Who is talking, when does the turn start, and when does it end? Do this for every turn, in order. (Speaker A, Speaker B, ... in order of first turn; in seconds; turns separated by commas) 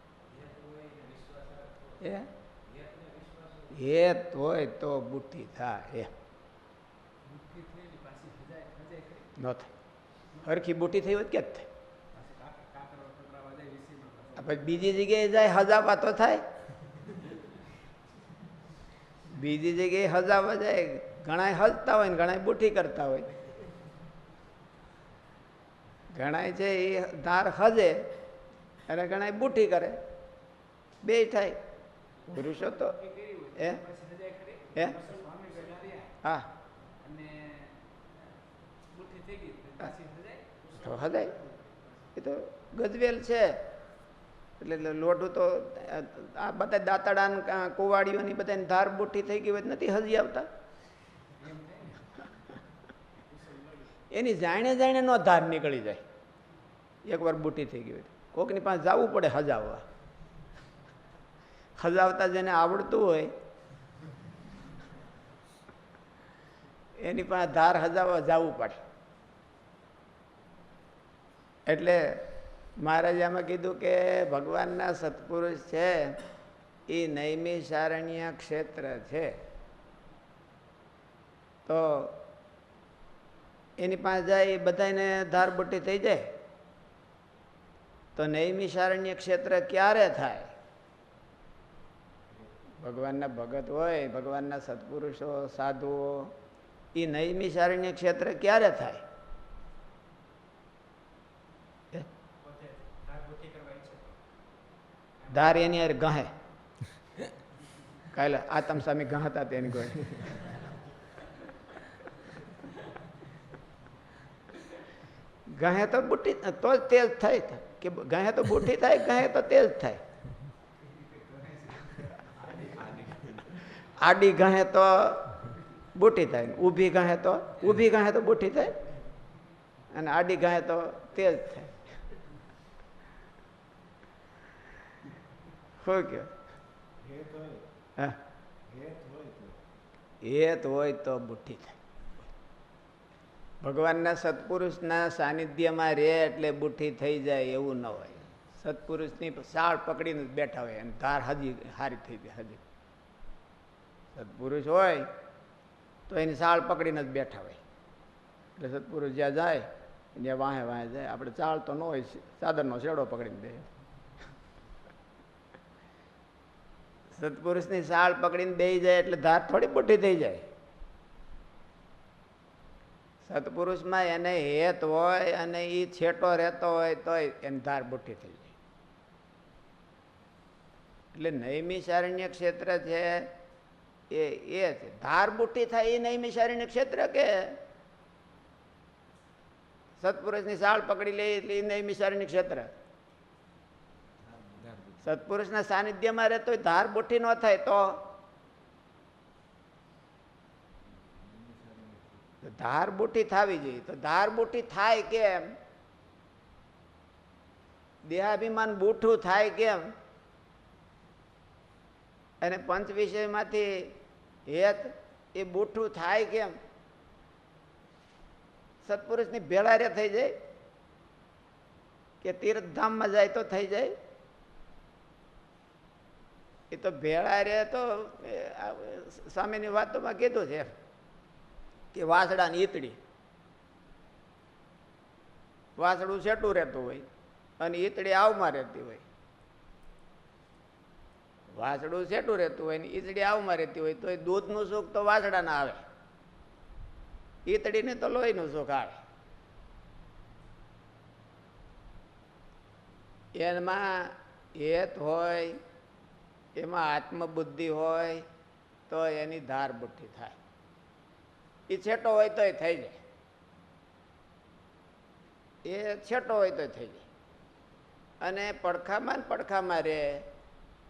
Speaker A: 0.4-0.8, Speaker A: 1.3-1.8, Speaker B: 2.0-2.3, Speaker B: 3.7-6.1, Speaker C: 7.2-9.3, Speaker B: 9.4-9.7, Speaker B: 10.4-11.7, Speaker C: 12.1-14.9, Speaker B: 14.4-16.4, Speaker B: 19.3-23.3, Speaker B: 26.1-28.2, Speaker B: 28.9-30.0, Speaker B: 31.0-31.6, Speaker B: 32.3-33.0, Speaker C: 32.4-36.1, Speaker B: 36.2-36.5, Speaker C: 37.0-37.8, Speaker C: 38.9-41.1, Speaker B: 40.8-41.4, Speaker B: 42.1-43.6, Speaker B: 44.6-50.5, Speaker C: 51.4-52.2, Speaker C: 53.3-53.9, Speaker B: 54.1-56.0, Speaker B: 57.0-59.8, Speaker B: 61.8-63.3, Speaker B: 67.0-68.8, Speaker B: 71.7-76.2, Speaker B: 76.9-79.3, Speaker B: 81.7-82.2, Speaker B: 83.8-86.3, Speaker B: 88.2-90.5, Speaker B: 92.8-96.3, Speaker B: 96.9-99.0, Speaker C: 102.4-104.1, Speaker C: 105.2-105.6, Speaker B: 105.3-106.3, Speaker B: 108.1-110.5, Speaker B: 115.5-120.0, Speaker A: 121.6-123.7, Speaker B: 123.8-125.4, Speaker B: 125.9-128.8, Speaker B: 129.9-131.8, Speaker B: 135.8-136.3, Speaker A: 137.0-137.7, Speaker A: 138.7-139.6, Speaker B: 140.2-141.8, Speaker B: 143.6-152.6, Speaker B: 154.1-155.1, Speaker B: 156.1-157.6, Speaker B: 158.6-163.7, Speaker B: 167.1-170.5, Speaker B: 173.2-178.5, Speaker B: 181.1-183.3, Speaker B: 184.1-187.6, Speaker B: 190.0-192.7, Speaker A: 194.2-195.0, Speaker B: 195.0-198.1, Speaker A: 201.0-202.2, Speaker B: 202.4-205.5, Speaker B: 208.0-209.9, Speaker B: 212.4-214.0, Speaker B: 214.5-216.6, Speaker B: 218.8-220.3, Speaker B: 222.2-223.9, Speaker B: 226.7-230.7, Speaker B: 231.9-233.0, Speaker B: 235.8-237.1, Speaker B: 237.6-239.0, Speaker B: 241.5-245.8, Speaker B: 247.4-249.0, Speaker B: 253.4-255.6, Speaker B: 256.6-258.2, Speaker B: 258.9-260.4, Speaker B: 261.7-263.0, Speaker B: 265.6-267.0, Speaker B: 268.2-270.3